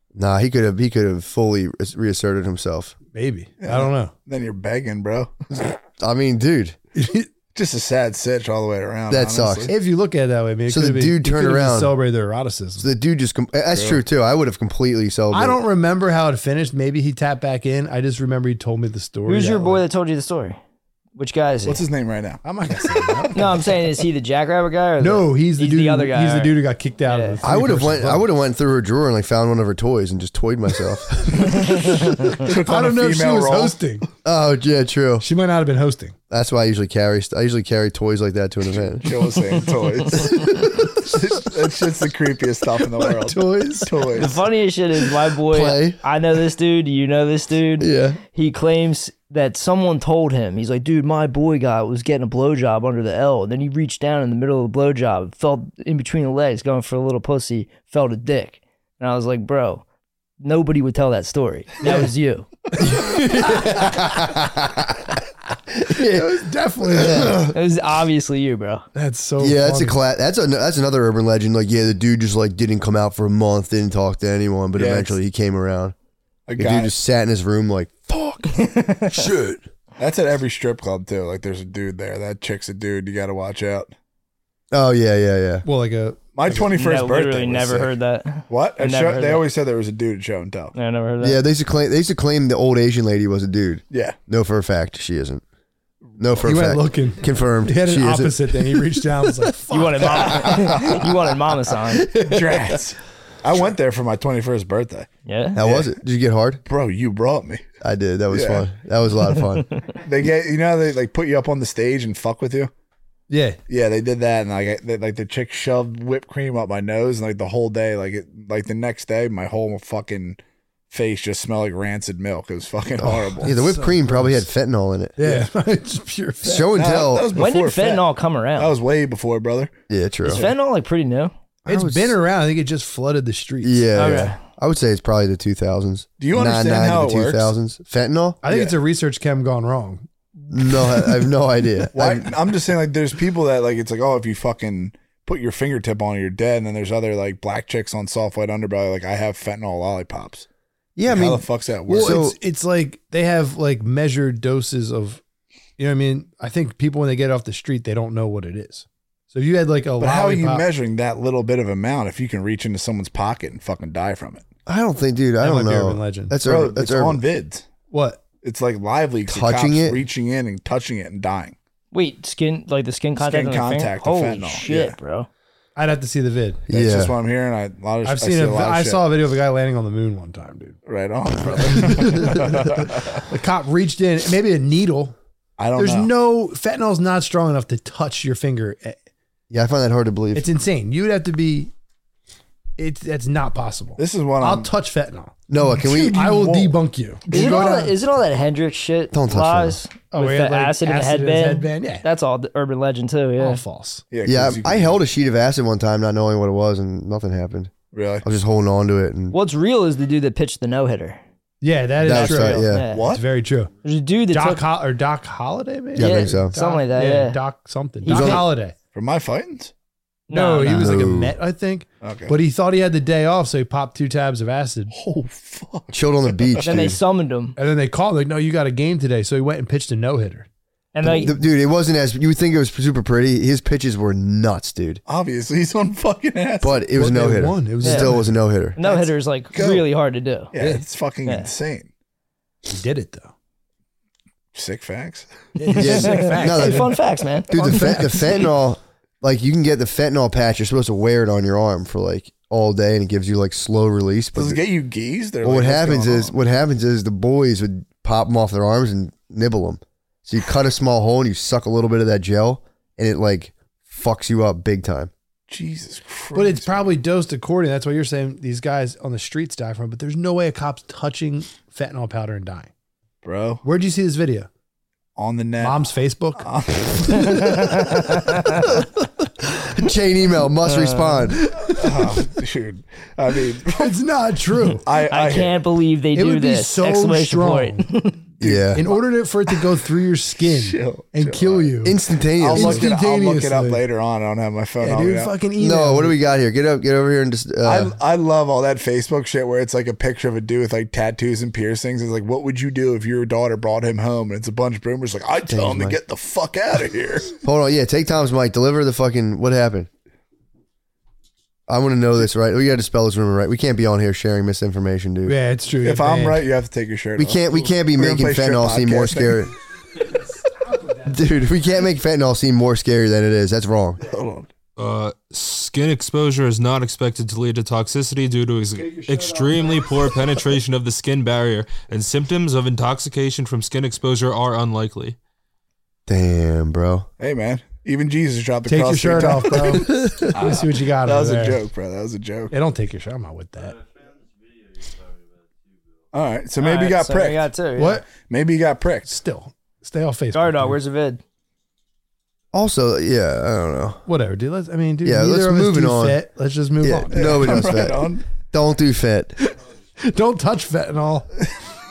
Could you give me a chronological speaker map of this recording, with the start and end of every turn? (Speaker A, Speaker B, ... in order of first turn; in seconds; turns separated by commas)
Speaker A: 0.1-2.9, Speaker B: 3.1-4.1, Speaker C: 3.6-5.3, Speaker A: 5.5-6.8, Speaker B: 6.9-7.3, Speaker C: 7.5-9.7, Speaker A: 9.1-9.7, Speaker B: 9.7-12.9, Speaker A: 10.7-11.9, Speaker A: 12.8-15.6, Speaker C: 13.7-14.0, Speaker B: 15.3-19.8, Speaker D: 19.3-20.6, Speaker D: 21.1-21.8, Speaker C: 21.6-23.4, Speaker B: 22.4-23.5, Speaker D: 23.3-26.5, Speaker B: 25.0-28.3, Speaker D: 27.1-27.4, Speaker A: 27.4-31.9, Speaker D: 31.6-32.3, Speaker C: 32.3-33.8, Speaker B: 32.4-34.1, Speaker A: 34.2-35.2, Speaker B: 35.2-36.1, Speaker A: 36.3-39.2, Speaker C: 38.9-44.4, Speaker A: 40.3-40.8, Speaker B: 42.9-44.0, Speaker D: 44.1-59.8, Speaker A: 45.5-46.0, Speaker A: 47.8-48.2, Speaker D: 60.4-62.5, Speaker B: 62.8-64.0, Speaker A: 62.8-65.1, Speaker A: 65.8-67.5, Speaker B: 65.9-67.5, Speaker D: 67.4-68.8, Speaker B: 68.9-70.0, Speaker A: 69.4-75.9, Speaker C: 74.7-75.1, Speaker C: 76.5-76.9, Speaker A: 76.6-79.6, Speaker D: 78.5-79.3, Speaker C: 80.0-83.9, Speaker A: 84.7-85.6, Speaker B: 85.6-86.7, Speaker C: 86.3-87.9, Speaker D: 86.7-89.5, Speaker C: 88.5-90.7, Speaker D: 90.7-91.4, Speaker A: 91.2-95.4, Speaker C: 93.9-94.2, Speaker A: 96.2-98.8, Speaker B: 96.4-100.6, Speaker D: 99.7-102.1, Speaker A: 100.5-100.9, Speaker C: 100.7-101.0, Speaker C: 102.1-105.9, Speaker D: 105.2-105.6, Speaker A: 105.5-106.6, Speaker C: 106.6-107.6, Speaker A: 107.8-109.7, Speaker C: 108.3-108.7, Speaker D: 109.4-109.8, Speaker C: 110.0-112.7, Speaker B: 113.3-113.6, Speaker C: 113.7-120.4, Speaker C: 120.9-123.5, Speaker A: 123.0-125.2, Speaker B: 123.4-124.4, Speaker B: 125.2-126.8, Speaker A: 126.4-127.4, Speaker C: 126.7-128.1, Speaker D: 127.3-128.7, Speaker C: 128.6-129.7, Speaker A: 129.9-130.5, Speaker D: 130.2-131.3, Speaker C: 130.2-130.5, Speaker B: 131.7-134.3, Speaker A: 131.7-132.2, Speaker A: 133.6-138.4, Speaker D: 133.9-134.4, Speaker C: 136.2-137.5, Speaker B: 138.4-140.0, Speaker C: 138.5-138.7, Speaker A: 140.5-142.3, Speaker C: 141.9-150.4, Speaker A: 150.9-152.3, Speaker C: 151.1-152.2, Speaker B: 151.9-155.2, Speaker B: 155.8-160.6, Speaker C: 160.0-164.4, Speaker A: 164.7-167.2, Speaker B: 165.4-166.3, Speaker C: 166.4-167.7, Speaker B: 167.9-168.2, Speaker C: 168.4-171.6, Speaker A: 169.3-170.0, Speaker D: 171.9-175.3, Speaker C: 173.2-174.9, Speaker B: 175.8-176.6, Speaker A: 176.7-177.1, Speaker C: 176.7-179.0, Speaker B: 178.0-180.8, Speaker C: 180.8-183.2, Speaker B: 181.4-185.2, Speaker C: 185.6-186.1, Speaker B: 185.8-189.0, Speaker A: 189.5-190.5, Speaker B: 190.3-191.7, Speaker B: 192.8-197.9, Speaker C: 194.0-194.7, Speaker A: 195.5-196.4, Speaker C: 195.8-197.7, Speaker D: 197.3-203.6, Speaker A: 199.1-199.8, Speaker B: 200.1-202.0, Speaker B: 203.4-204.0, Speaker C: 204.1-205.0, Speaker A: 204.2-207.7, Speaker C: 207.9-208.2, Speaker A: 208.2-209.3, Speaker D: 209.3-211.2, Speaker B: 211.6-213.7, Speaker A: 212.0-212.9, Speaker D: 212.1-213.0, Speaker C: 212.9-213.2, Speaker D: 213.8-214.6, Speaker B: 214.3-218.8, Speaker A: 215.9-216.5, Speaker D: 216.0-217.4, Speaker D: 218.0-218.4, Speaker A: 218.1-218.4, Speaker C: 218.9-219.7, Speaker D: 220.3-220.9, Speaker B: 220.3-224.9, Speaker A: 220.6-221.3, Speaker C: 222.0-222.3, Speaker C: 224.9-226.9, Speaker A: 225.9-227.0, Speaker D: 226.6-227.6, Speaker B: 227.6-230.5, Speaker D: 230.9-231.3, Speaker A: 231.0-235.0, Speaker C: 235.1-236.8, Speaker A: 236.6-238.8, Speaker B: 236.9-238.3, Speaker D: 237.8-238.1, Speaker D: 238.8-240.5, Speaker C: 238.8-239.9, Speaker C: 240.5-241.9, Speaker B: 240.6-240.8, Speaker B: 242.7-243.3, Speaker C: 244.5-245.3, Speaker B: 245.6-247.0, Speaker D: 245.7-248.1, Speaker A: 245.8-254.6, Speaker B: 247.5-248.4, Speaker C: 254.3-256.3, Speaker A: 255.4-265.1, Speaker C: 265.5-266.9, Speaker B: 266.3-272.7, Speaker C: 273.2-273.6, Speaker B: 273.6-274.5, Speaker C: 275.1-275.9, Speaker B: 275.6-276.5, Speaker C: 276.4-278.2, Speaker D: 277.1-278.6, Speaker A: 279.5-281.5, Speaker D: 280.7-281.2, Speaker C: 281.6-283.9, Speaker B: 283.7-284.8, Speaker C: 284.7-285.6, Speaker D: 284.9-288.2, Speaker B: 286.1-287.9, Speaker C: 288.4-289.0, Speaker A: 288.4-288.8, Speaker B: 288.7-292.0, Speaker C: 290.4-291.7, Speaker A: 291.8-292.9, Speaker C: 292.4-295.3, Speaker B: 292.5-293.8, Speaker B: 294.8-296.2, Speaker A: 295.6-297.9, Speaker C: 297.6-307.4, Speaker A: 305.5-306.0, Speaker A: 307.4-309.9, Speaker A: 311.7-315.4, Speaker B: 315.2-316.5, Speaker C: 315.8-319.5, Speaker A: 317.1-319.5, Speaker A: 321.0-324.0, Speaker C: 324.0-324.5, Speaker E: 324.8-335.2, Speaker B: 328.8-329.7, Speaker A: 336.1-337.1, Speaker C: 337.2-342.5, Speaker B: 338.7-341.6, Speaker A: 339.9-340.3, Speaker B: 342.5-343.8, Speaker C: 346.1-347.5, Speaker D: 346.6-348.0, Speaker B: 347.8-348.1, Speaker C: 348.1-349.1, Speaker B: 349.1-350.8, Speaker D: 350.3-351.2, Speaker A: 352.5-354.0, Speaker B: 354.1-357.7, Speaker A: 355.0-356.2, Speaker A: 356.8-359.3, Speaker C: 357.1-358.3, Speaker B: 360.0-361.3